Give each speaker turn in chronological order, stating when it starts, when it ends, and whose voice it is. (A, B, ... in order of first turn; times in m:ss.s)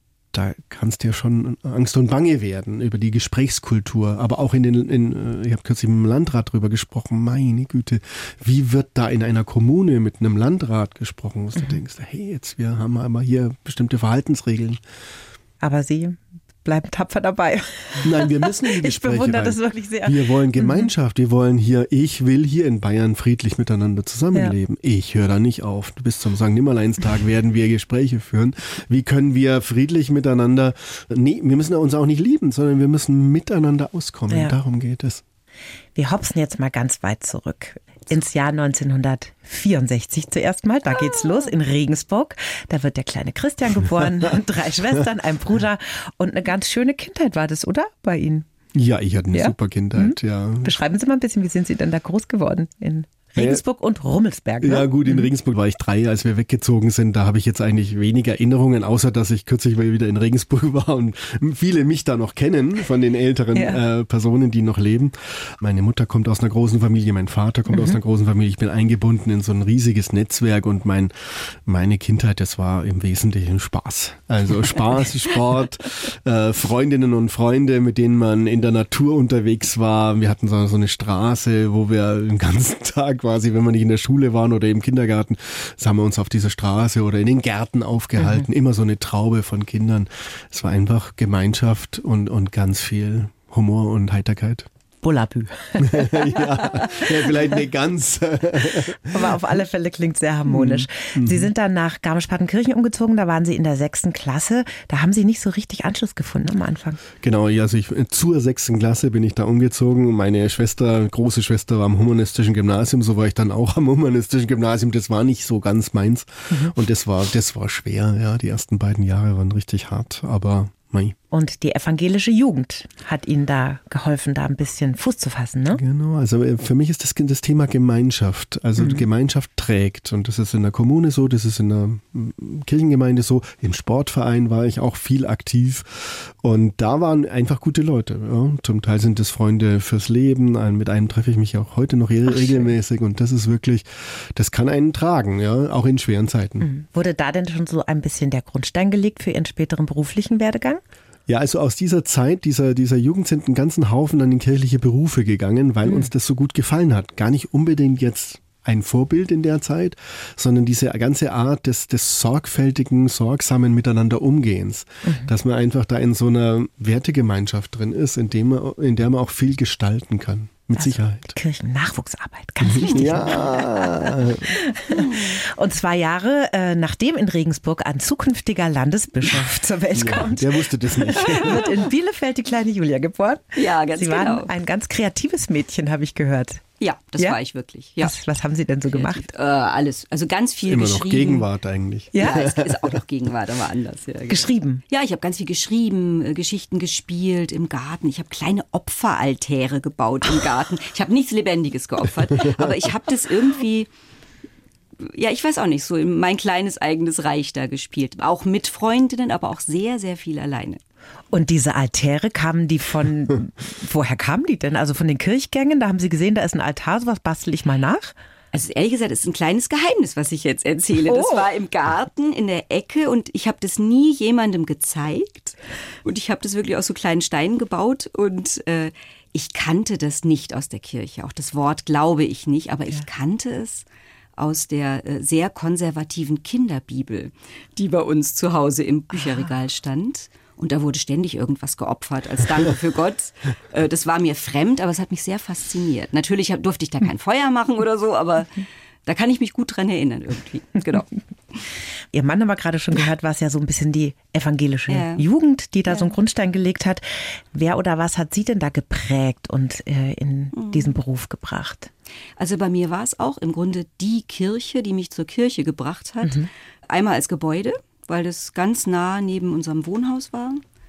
0:00.3-0:14.8 A
0:15.6-0:20.9 B
0:18.0-0:35.2 A
0:34.3-0:34.6 B
0:35.9-0:48.5 B
0:40.9-0:41.5 C
0:48.7-0:50.7 A
0:49.3-0:55.3 B
0:53.4-0:53.6 A
0:54.6-1:34.7 A
1:03.5-1:03.8 B
1:07.7-1:08.0 B
1:28.2-1:28.5 B
1:35.0-1:37.0 B
1:35.8-1:39.4 A
1:39.1-1:47.0 B
1:40.5-1:41.5 A
1:47.2-2:01.2 A
2:01.3-2:05.8 B
2:05.7-2:26.7 A
2:08.8-2:09.1 B
2:22.3-2:22.7 B
2:26.6-2:30.8 B
2:31.3-2:51.3 A
2:35.8-2:36.1 B
2:45.0-2:45.3 B
2:50.8-3:06.6 B
2:52.6-2:54.6 A
2:54.9-2:55.4 C
2:59.9-3:01.8 A
3:03.6-3:04.5 C
3:06.8-3:08.2 C
3:08.0-3:09.3 B
3:08.9-3:11.4 C
3:10.7-3:13.0 A
3:12.1-3:12.5 B
3:12.2-3:23.9 C
3:14.3-3:14.8 B
3:22.4-3:22.7 A
3:25.0-3:30.8 C
3:31.3-3:38.1 B
3:38.5-3:53.8 C
3:41.1-3:41.4 B
3:54.4-4:11.6 C
4:12.1-4:21.9 B
4:14.9-4:15.2 C
4:15.9-4:16.1 C
4:20.5-4:21.0 C
4:22.4-4:30.6 C